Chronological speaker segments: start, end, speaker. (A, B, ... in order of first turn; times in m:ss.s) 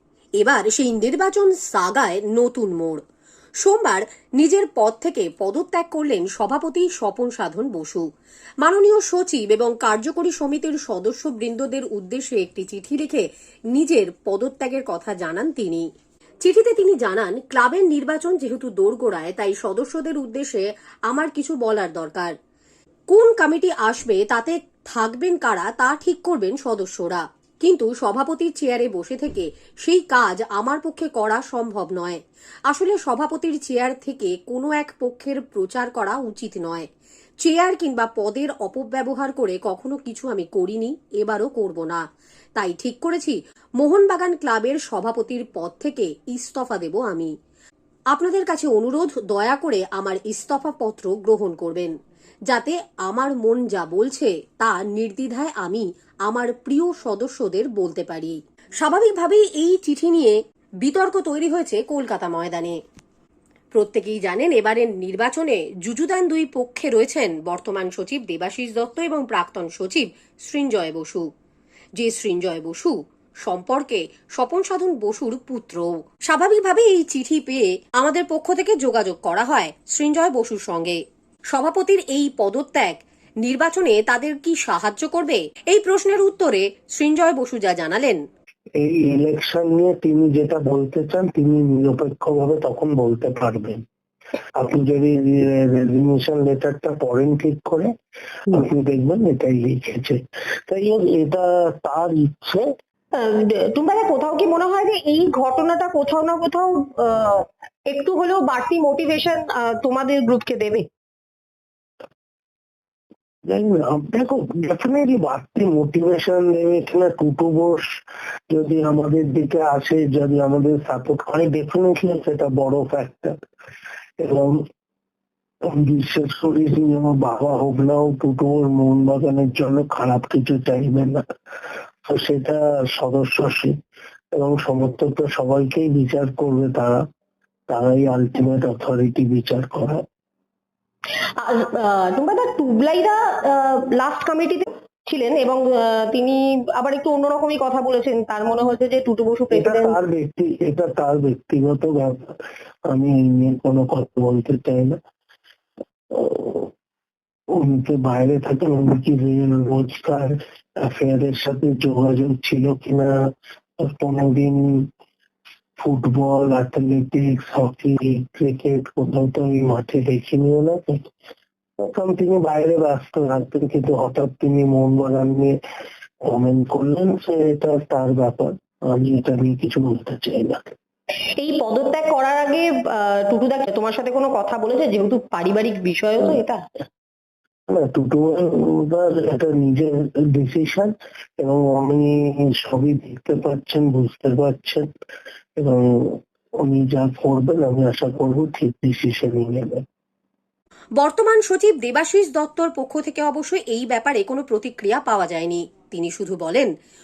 0:00.4-0:03.0 A
0:03.6-0:08.0 A
0:08.6-0:15.9 A
0:16.4-0:22.3 A
0:23.1-0:36.9 A
0:37.4-0:42.0 A
0:42.6-0:47.3 A
0:48.1-0:51.9 A
0:52.5-1:02.8 A
1:03.7-1:11.3 A
1:12.0-1:21.0 A
1:21.5-1:28.2 A
1:28.8-1:33.8 B
1:34.6-1:37.9 B
1:38.5-1:42.7 B
1:43.1-1:50.9 C
1:53.5-1:57.8 B
1:58.5-2:03.4 B
2:04.2-2:04.6 B
2:05.7-2:11.2 B
2:12.0-2:13.8 B
2:14.3-2:17.0 B
2:17.7-2:20.0 B
2:21.4-2:30.0 C
2:29.5-2:32.3 B
2:32.9-2:35.0 B
2:36.1-2:36.7 B
2:37.5-2:43.2 B
2:43.8-2:44.9 B
2:45.8-2:51.0 B
2:51.8-2:55.5 B
2:56.3-3:00.7 B
3:01.4-3:06.6 C
3:07.7-3:14.9 B
3:15.6-3:19.8 B
3:21.0-3:26.7 A